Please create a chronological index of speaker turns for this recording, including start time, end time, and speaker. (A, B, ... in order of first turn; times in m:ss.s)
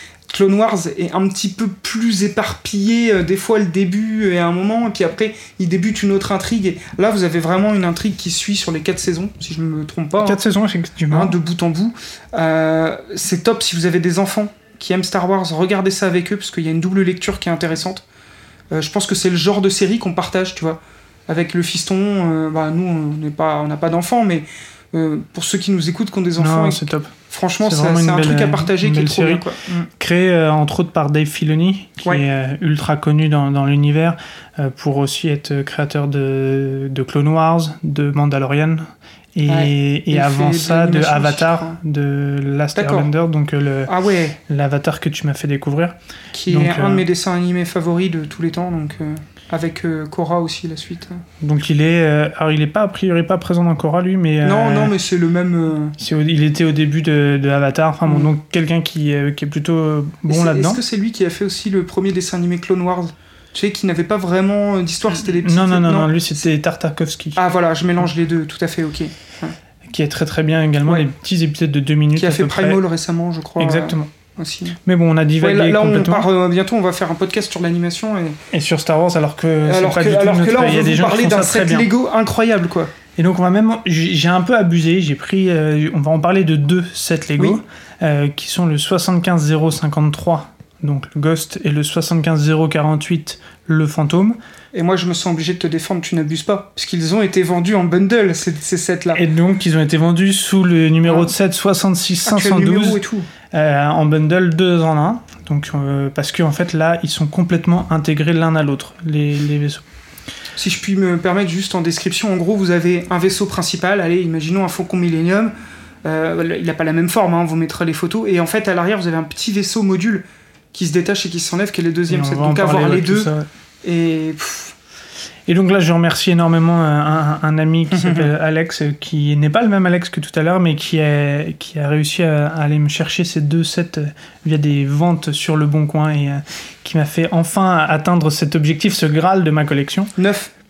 0:00.3-0:10.4 A
0:10.2-0:11.4 B
0:11.1-0:18.0 A
0:18.7-0:29.9 A
0:26.4-0:29.4 B
0:30.0-0:43.9 B
0:39.5-0:41.8 A
0:42.8-0:43.1 A
0:43.9-0:44.4 A
0:44.5-0:45.9 B
0:46.3-0:51.2 A
0:46.5-0:47.0 B
0:51.4-0:54.9 B
0:54.4-0:55.9 A
0:56.0-1:00.8 B
0:58.0-0:58.3 A
1:00.3-1:06.4 A
1:05.2-1:07.4 B
1:07.4-1:09.6 A
1:09.9-1:12.8 B
1:12.2-1:14.8 A
1:13.6-1:14.1 B
1:14.8-1:16.3 B
1:15.4-1:18.4 A
1:18.5-1:21.9 B
1:19.6-1:22.9 A
1:23.2-1:34.4 B
1:34.7-1:39.2 A
1:39.1-1:43.0 B
1:41.0-1:41.3 A
1:42.2-1:43.3 A
1:43.5-1:49.8 B
1:50.6-1:55.5 A
1:56.0-2:03.3 A
2:02.1-2:03.5 B
2:03.8-2:04.7 A
2:05.5-2:20.1 B
2:07.9-2:08.3 A
2:20.2-2:20.5 A